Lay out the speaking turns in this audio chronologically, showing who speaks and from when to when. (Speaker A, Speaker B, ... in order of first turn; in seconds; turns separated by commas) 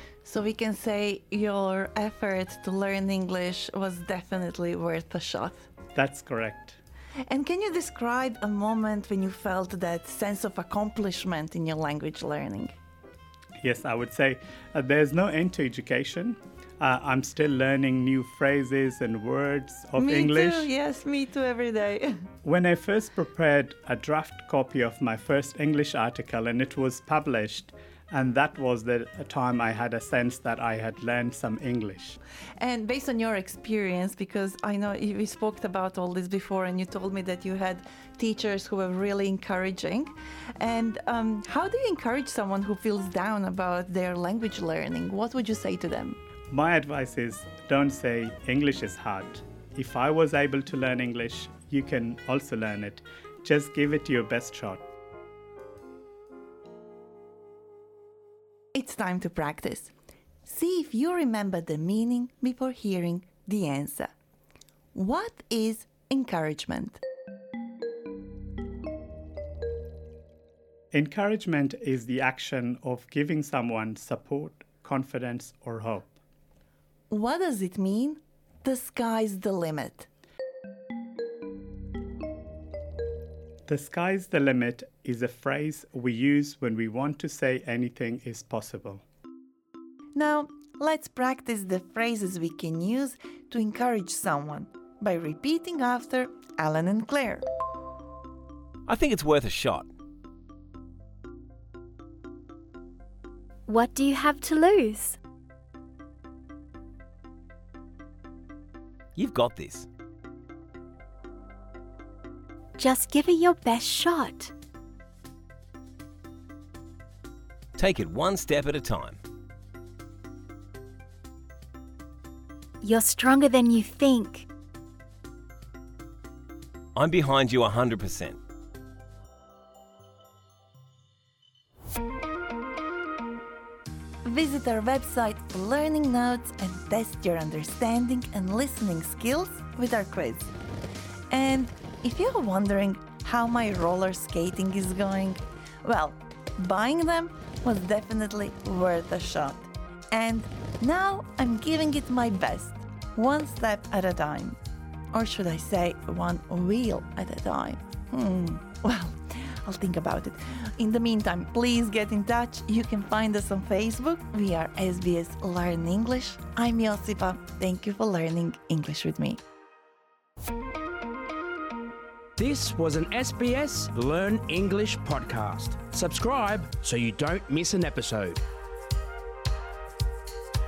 Speaker A: 0.2-5.7, Speaker B: 5.9-6.8, Speaker A: 7.3-12.7, Speaker B: 13.6-20.7, Speaker A: 20.0-22.1, Speaker B: 22.4-32.2, Speaker A: 32.6-46.2, Speaker B: 46.5-54.8, Speaker A: 58.7-59.9, Speaker A: 60.5-64.1, Speaker A: 64.9-67.0, Speaker B: 70.9-76.1, Speaker A: 77.1-80.1, Speaker B: 83.7-89.0, Speaker A: 90.2-97.4, Speaker C: 98.8-99.9, Speaker D: 103.7-105.2, Speaker C: 109.1-109.9, Speaker D: 112.8-114.5, Speaker C: 117.8-119.2, Speaker D: 122.8-124.5, Speaker C: 127.0-128.4, Speaker A: 134.2-140.5, Speaker A: 141.3-154.6, Speaker A: 155.1-169.4, Speaker E: 172.4-178.4